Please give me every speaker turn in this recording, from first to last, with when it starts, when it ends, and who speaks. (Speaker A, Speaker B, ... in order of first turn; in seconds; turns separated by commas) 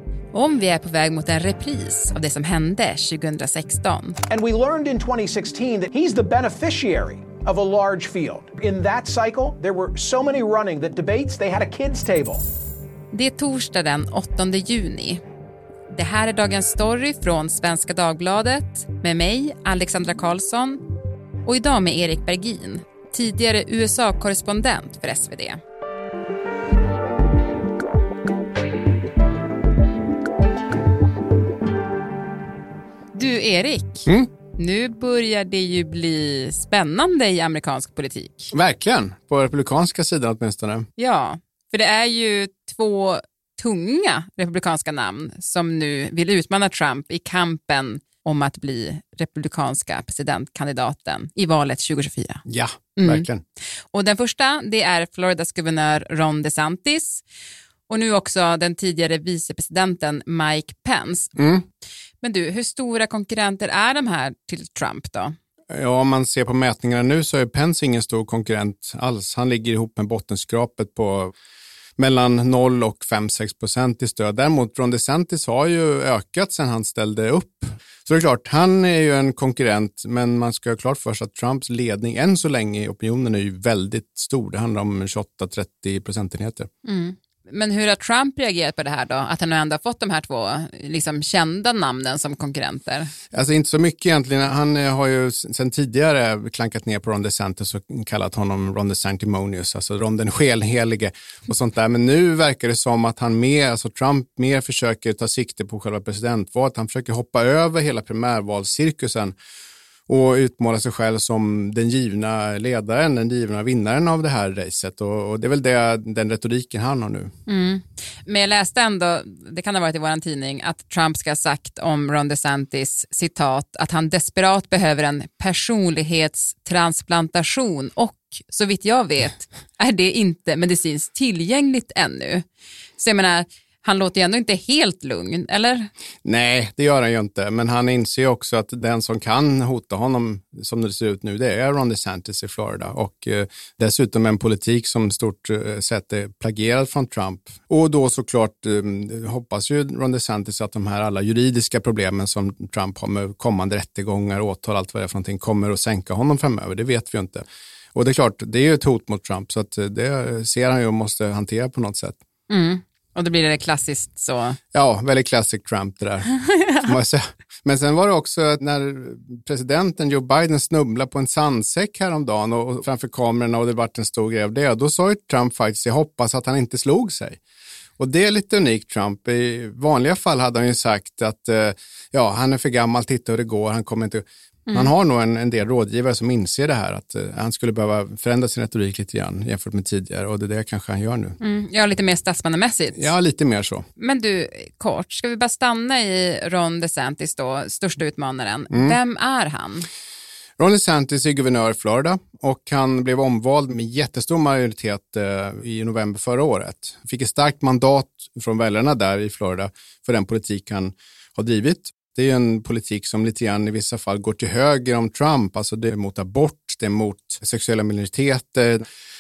Speaker A: 0.3-4.2, Speaker B: 4.3-12.4, Speaker A: 13.1-15.2, Speaker A: 15.9-20.8, Speaker A: 21.4-25.6, Speaker A: 33.1-38.5, Speaker C: 38.5-40.9, Speaker A: 41.0-52.4, Speaker C: 52.5-53.4, Speaker A: 53.0-53.3, Speaker A: 53.9-57.2, Speaker A: 57.9-61.4, Speaker C: 61.4-61.6, Speaker A: 62.2-65.3, Speaker C: 65.7-71.3, Speaker C: 72.0-86.7, Speaker A: 86.8-93.1, Speaker C: 93.3-109.3, Speaker C: 110.1-117.3, Speaker A: 117.5-132.5, Speaker A: 133.0-135.9, Speaker C: 136.2-162.2, Speaker A: 162.5-164.6, Speaker C: 164.7-177.4, Speaker C: 178.0-191.4, Speaker A: 191.4-193.1, Speaker C: 192.9-193.9, Speaker A: 194.0-199.9, Speaker C: 198.7-199.0, Speaker C: 200.6-218.8